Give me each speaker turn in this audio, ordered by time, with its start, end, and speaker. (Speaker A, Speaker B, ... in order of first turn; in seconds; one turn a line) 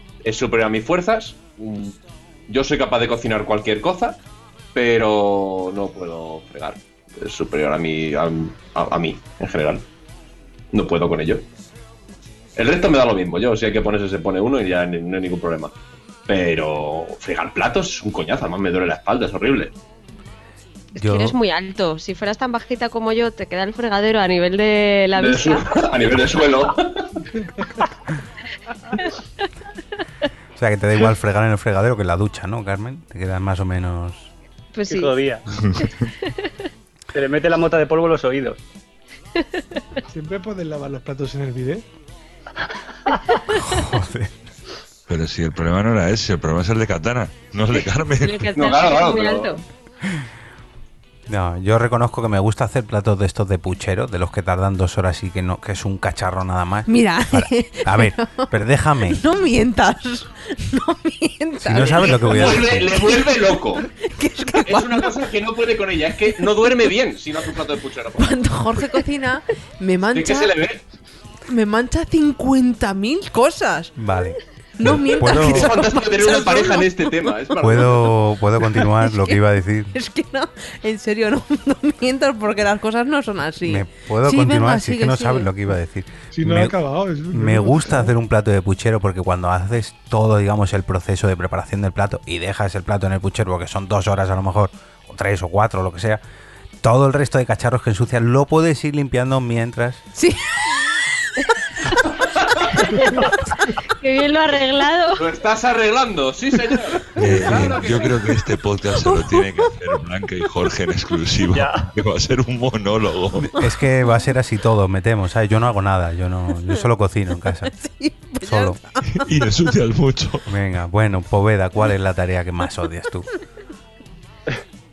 Speaker A: 0.2-1.9
Speaker A: 2.5-4.2
Speaker A: 4.7-9.8
Speaker A: 10.7-11.4
Speaker A: 12.6-15.7
Speaker A: 16.3-19.7
Speaker B: 20.9-25.8
Speaker C: 21.0-21.4
Speaker A: 25.1-27.1
Speaker C: 30.6-34.3
Speaker B: 34.7-35.1
Speaker D: 34.9-35.4
Speaker E: 35.6-35.9
Speaker B: 35.8-36.5
Speaker D: 37.1-38.6
Speaker F: 40.1-41.9
Speaker C: 43.5-44.3
Speaker E: 45.1-48.5
Speaker B: 47.7-49.6
Speaker A: 48.5-49.5
Speaker C: 51.3-59.2
Speaker G: 56.9-58.5
Speaker G: 59.1-63.2
Speaker C: 61.6-63.0
Speaker A: 62.0-63.8
Speaker G: 63.8-65.1
Speaker A: 64.6-68.4
Speaker G: 68.2-70.5
Speaker A: 70.1-70.8
Speaker G: 71.5-74.0
Speaker C: 74.0-75.7
Speaker G: 74.8-77.3
Speaker A: 75.2-78.1
Speaker C: 77.6-79.9
Speaker G: 78.8-79.4
Speaker G: 79.9-85.5
Speaker C: 83.6-86.8
Speaker F: 86.3-88.1
Speaker C: 87.3-96.2
Speaker C: 96.8-100.0
Speaker G: 100.1-100.4
Speaker A: 102.1-102.7
Speaker B: 102.8-103.2
Speaker B: 103.9-105.2
Speaker A: 105.2-108.3
Speaker E: 107.2-113.6
Speaker C: 107.2-107.8
Speaker D: 111.5-111.9
Speaker C: 113.5-117.7
Speaker G: 117.7-119.1
Speaker C: 118.4-118.8
Speaker E: 119.1-120.5
Speaker C: 120.5-123.3